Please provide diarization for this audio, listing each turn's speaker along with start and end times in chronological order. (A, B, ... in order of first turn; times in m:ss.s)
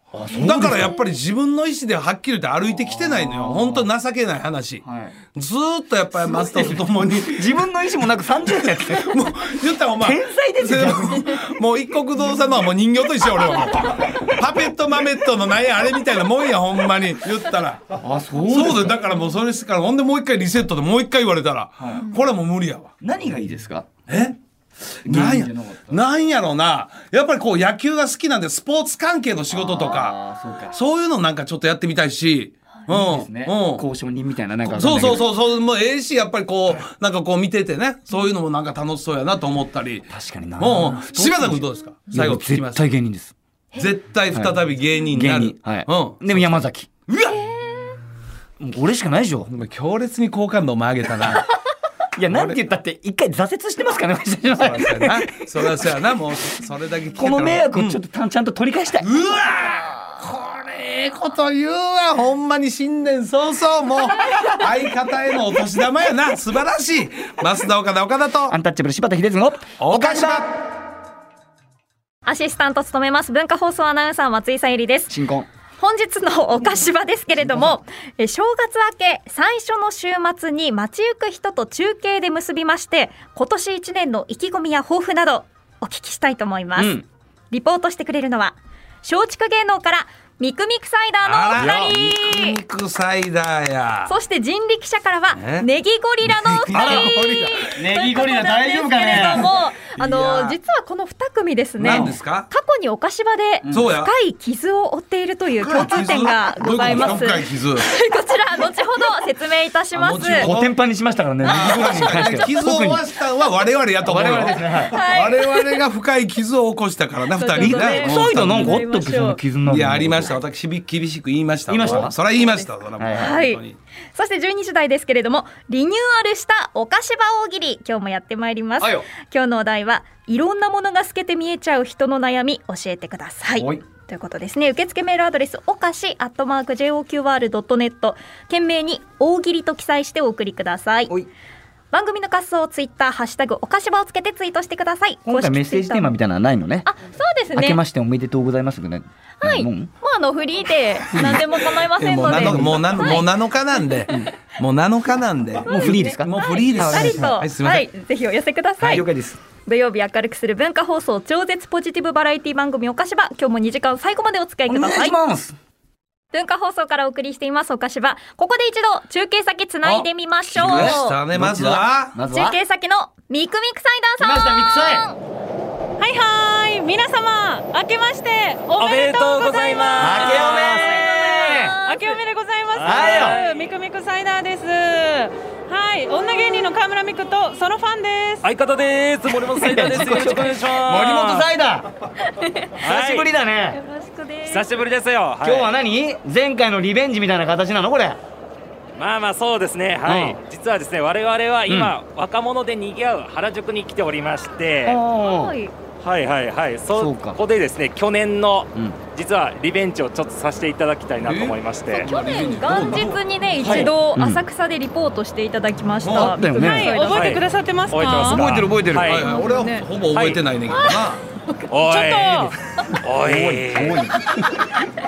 0:00.1-0:01.0 A
0:00.3-0:04.8 B
0:02.8-0:03.9 A
0:04.8-0:05.2 A
0:05.3-0:07.7 B
0:06.2-0:09.3 A
0:08.5-0:17.9 B
0:09.9-0:11.5 A
0:18.0-0:19.0 A
0:18.5-0:22.9 B
0:21.8-0:22.1 A
0:23.0-0:23.9 A
0:24.1-0:24.4 B
0:25.0-0:30.2 B
0:25.0-0:26.0 A
0:29.5-0:30.8 A
0:30.7-0:33.8 B
0:32.9-0:35.3 A
0:34.7-0:40.1 B
0:40.1-0:43.3 A
0:40.6-0:42.9 B
0:43.8-0:47.3 B
0:44.3-0:46.9 A
0:48.6-0:49.5 A
0:49.5-0:51.5 B
0:52.2-0:55.9 A
0:52.3-0:52.6 B
0:54.5-0:58.0 B
0:57.1-0:59.3 A
0:59.0-1:08.6 B
1:08.5-1:10.5 A
1:09.8-1:10.5 B
1:12.3-1:15.1 C
1:15.1-1:15.5 A
1:15.8-1:32.6 C
1:26.8-1:27.1 A
1:31.2-1:34.1 B
1:31.5-1:32.0 A
1:34.1-1:50.5 C
1:35.3-1:35.7 B
1:36.2-1:37.6 B
1:36.7-1:39.5 A
1:39.1-1:40.6 B
1:41.8-1:42.2 A
1:41.8-1:42.5 B
1:43.6-1:43.9 A
1:43.7-1:44.1 B
1:45.6-1:47.9 B
1:50.0-1:50.8 B
1:50.3-1:53.0 A
1:51.4-1:58.7 B
1:51.7-1:52.0 C
1:54.0-1:55.0 A
1:54.9-1:55.8 C
1:57.4-1:59.4 C
1:57.6-2:00.4 A
1:59.7-2:03.8 B
2:01.7-2:02.2 A
2:01.8-2:03.6 C
2:03.0-2:03.4 A
2:04.2-2:21.1 C
2:08.8-2:09.1 A
2:13.6-2:13.8 A
2:21.9-2:26.2 C
2:25.2-2:26.9 A
2:26.8-2:27.8 C
2:27.5-2:29.9 A
2:29.4-2:33.3 C
2:31.1-2:31.4 A
2:32.0-2:37.9 B
2:32.2-2:33.2 A
2:33.8-2:34.2 C
2:35.6-2:37.3 A
2:35.6-2:39.1 C
2:38.8-2:39.4 A
2:39.6-2:45.2 C
2:44.7-2:45.6 A
2:46.3-2:51.2 C
2:49.8-2:52.2 B
2:50.5-2:52.6 A
2:52.3-2:55.2 C
2:54.2-2:55.1 A
2:56.0-3:01.0 D
2:58.8-3:01.1 E
3:00.0-3:01.8 A
3:00.8-3:02.2 C
3:01.8-3:08.5 D
3:02.8-3:03.6 E
3:02.8-3:03.4 A
3:06.1-3:06.7 C
3:08.4-3:11.5 E
3:09.6-3:10.3 D
3:09.6-3:11.9 A
3:12.3-3:12.8 C
3:12.8-3:13.8 A
3:12.8-3:13.3 E
3:13.7-3:14.7 C
3:14.5-3:15.7 E
3:15.4-3:18.2 A
3:19.0-3:25.0 E
3:20.0-3:20.4 A
3:21.7-3:22.0 A
3:24.8-3:25.6 A
3:25.2-3:25.7 C
3:26.0-3:32.1 E
3:26.9-3:27.4 A
3:31.2-3:33.8 B
3:31.9-3:37.4 C
3:33.6-3:34.4 A
3:36.0-3:36.4 B
3:36.1-3:36.9 A
3:36.5-3:38.5 D
3:37.0-3:39.3 E
3:38.1-3:39.2 A
3:38.9-3:41.2 B
3:39.2-3:39.9 C
3:40.1-3:40.4 E
3:40.7-3:41.0 C
3:41.7-3:44.0 E
3:41.8-3:42.6 D
3:43.2-3:44.7 A